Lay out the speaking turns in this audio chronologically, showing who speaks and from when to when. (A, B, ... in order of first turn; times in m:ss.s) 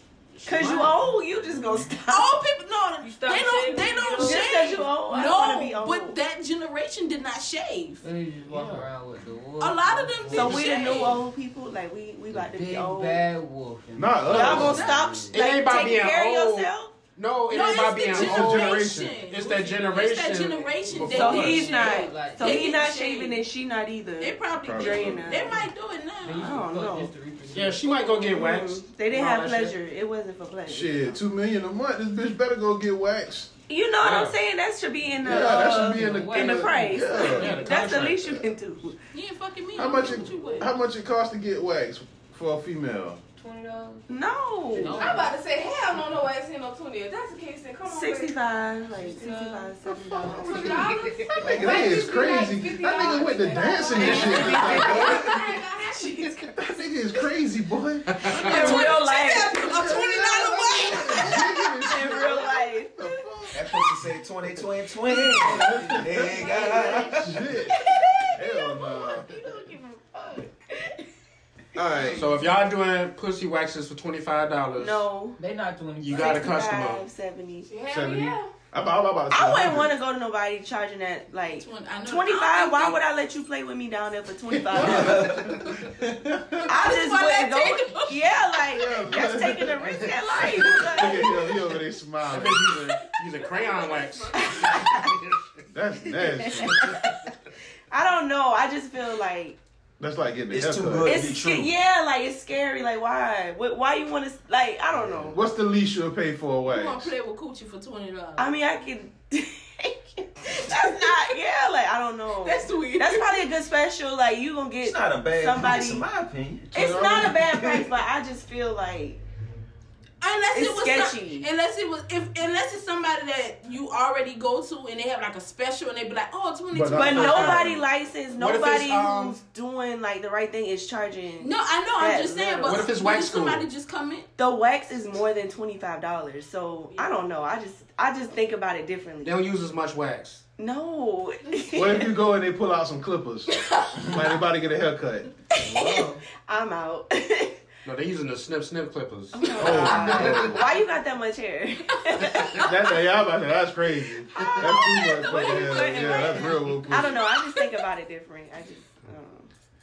0:00.4-0:01.0 A
0:00.4-0:02.4 B
0:02.1-0:08.0 C
0:03.0-0:04.6 D
0:04.2-0:06.2 B
0:08.0-0:11.0 D
0:08.5-0:08.8 E
0:09.6-0:11.2 C
0:10.3-0:13.2 B
0:12.3-0:15.4 D
0:14.0-0:14.8 E
0:14.3-0:16.9 B
0:14.4-0:14.6 A
0:14.6-0:15.0 C
0:15.3-0:21.4 A
0:17.5-0:23.4 C
0:18.1-0:19.1 E
0:20.8-0:22.7 D
0:21.0-0:25.6 B
0:24.2-0:26.5 C
0:24.6-0:25.6 E
0:26.2-0:28.2 D
0:26.4-0:27.1 B
0:27.5-0:28.8 A
0:28.0-0:31.2 B
0:29.1-0:29.7 D
0:30.7-0:33.5 E
0:33.7-0:39.0 B
0:34.0-0:34.4 A
0:35.2-0:37.6 E
0:35.2-0:37.5 D
0:37.3-0:38.4 A
0:39.1-0:40.7 C
0:39.8-0:43.2 E
0:43.4-0:44.0 D
0:44.1-0:45.2 B
0:44.7-0:45.3 D
0:44.7-0:48.4 F
0:47.8-0:50.9 B
0:49.0-0:49.6 F
0:49.1-0:49.4 D
0:49.9-0:51.2 D
0:50.2-0:56.5 F
0:51.4-0:55.3 E
0:54.0-0:55.4 B
0:54.1-0:54.9 D
0:54.6-0:55.6 C
0:56.6-0:58.8 E
0:58.1-0:58.8 A
0:58.2-1:00.0 B
0:58.3-1:01.5 C
0:59.6-1:03.8 E
1:00.8-1:03.7 B
1:03.5-1:07.4 G
1:05.2-1:06.2 D
1:05.4-1:07.8 E
1:06.3-1:11.0 B
1:08.3-1:09.3 E
1:11.7-1:12.3 E
1:11.9-1:12.2 B
1:12.1-1:15.0 A
1:14.8-1:15.4 B
1:15.4-1:16.4 D
1:16.0-1:17.0 A
1:16.1-1:17.7 B
1:17.7-1:18.5 F
1:17.9-1:19.9 E
1:19.3-1:25.6 B
1:21.5-1:23.0 C
1:24.5-1:26.7 E
1:24.8-1:25.4 G
1:26.7-1:31.6 B
1:26.7-1:28.4 C
1:28.7-1:32.7 E
1:29.8-1:30.9 A
1:32.3-1:35.4 A
1:33.3-1:34.8 F
1:34.4-1:35.0 B
1:35.7-1:36.9 E
1:36.1-1:37.2 B
1:37.9-1:39.6 B
1:40.0-1:41.6 E
1:40.5-1:41.7 G
1:41.0-1:45.4 B
1:45.3-1:47.1 E
1:46.7-1:48.5 C
1:48.4-1:56.1 B
1:50.8-1:51.3 C
1:52.4-1:53.5 C
1:54.8-1:56.7 G
1:56.7-1:57.6 E
1:56.7-1:59.2 B
1:57.4-1:57.8 G
2:00.2-2:07.7 C
2:00.5-2:01.5 B
2:06.7-2:07.8 E
2:06.9-2:12.9 B
2:08.3-2:09.4 A
2:11.4-2:14.3 C
2:12.6-2:13.6 A
2:14.4-2:19.5 B
2:19.2-2:20.4 A
2:20.6-2:22.1 B
2:21.7-2:25.3 E
2:25.6-2:26.2 D
2:25.6-2:27.6 B
2:27.8-2:30.6 A
2:29.3-2:33.0 B
2:29.6-2:30.7 E
2:32.6-2:37.2 E
2:34.2-2:39.5 B
2:34.9-2:36.5 C